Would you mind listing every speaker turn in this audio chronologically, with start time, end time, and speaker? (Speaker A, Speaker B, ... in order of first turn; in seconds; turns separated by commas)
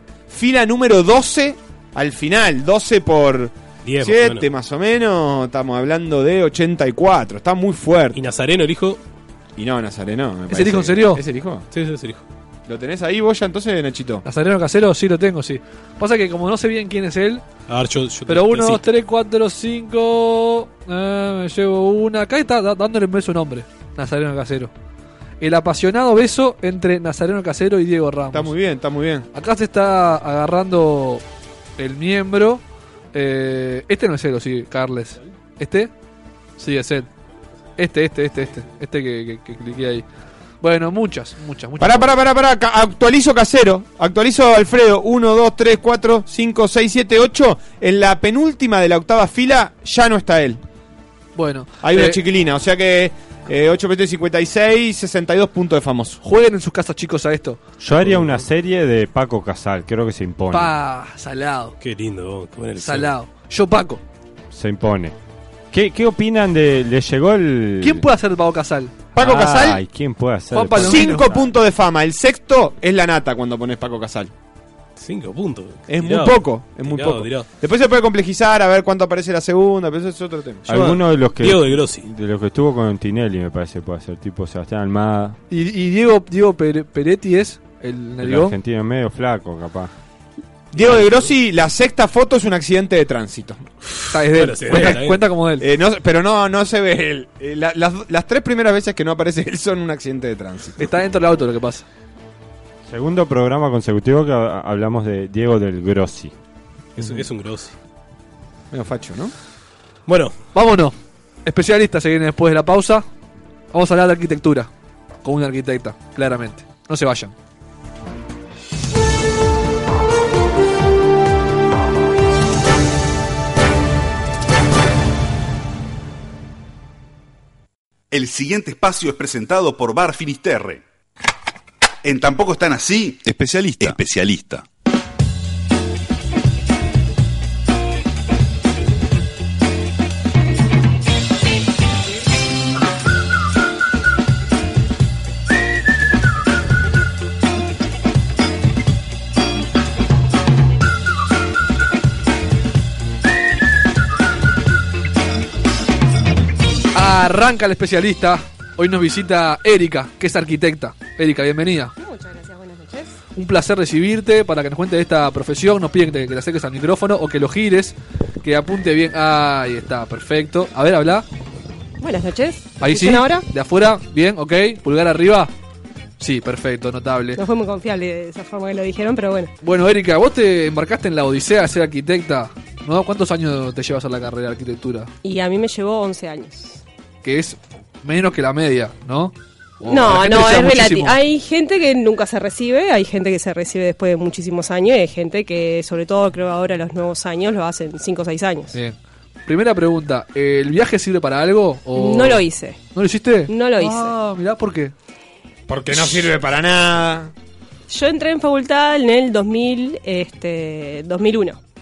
Speaker A: 0.3-8.2, Speaker B: 3.8-4.5, Speaker B: 8.1-9.0, Speaker A: 9.6-11.6, Speaker C: 10.5-11.2, Speaker B: 11.7-12.2, Speaker A: 12.7-14.2, Speaker C: 14.2-17.4, Speaker B: 17.7-18.8, Speaker C: 18.3-24.7, Speaker C: 25.4-28.5, Speaker A: 28.3-29.3, Speaker C: 29.3-31.2, Speaker C: 31.8-32.6, Speaker C: 33.1-35.9, Speaker C: 36.6-37.1, Speaker C: 37.8-40.0, Speaker C: 40.6-42.2, Speaker A: 41.8-50.6, Speaker C: 51.4-52.2, Speaker A: 51.8-56.2, Speaker C: 56.2-58.4, Speaker D: 57.8-60.7, Speaker C: 60.5-61.7, Speaker B: 61.8-63.1, Speaker C: 62.8-64.0, Speaker D: 64.5-65.2, Speaker D: 65.7-68.0, Speaker C: 67.8-69.8, Speaker A: 69.2-69.6, Speaker D: 69.2-71.5, Speaker C: 70.5-71.2, Speaker A: 70.8-74.3, Speaker B: 75.0-77.5, Speaker A: 75.9-80.7, Speaker D: 80.7-85.4, Speaker B: 80.7-82.0, Speaker C: 85.5-88.5, Speaker D: 88.2-89.9, Speaker A: 90.7-93.6, Speaker C: 94.1-95.6, Speaker B: 94.3-95.2, Speaker A: 95.6-100.8, Speaker C: 100.8-101.8, Speaker D: 102.9-106.3, Speaker B: 107.0-107.7, Speaker A: 108.7-109.3, Speaker B: 110.1-110.3, Speaker C: 110.5-113.0, Speaker C: 113.7-114.7, Speaker C: 115.2-117.3, Speaker E: 128.1-130.8, Speaker E: 132.0-134.6, Speaker C: 156.9-161.9, Speaker F: 162.0-163.2, Speaker C: 163.3-171.2, Speaker F: 172.0-173.4, Speaker C: 172.8-175.5, Speaker C: 176.2-177.4, Speaker F: 177.3-179.5, Speaker C: 179.6-185.1, Speaker F: 185.2-186.8, Speaker C: 187.2-191.2, Speaker F: 189.8-198.8, Speaker C: 198.7-204.9, Speaker F: 201.9-202.8, Speaker F: 203.5-204.1, Speaker A: 205.7-207.3, Speaker F: 207.9-211.6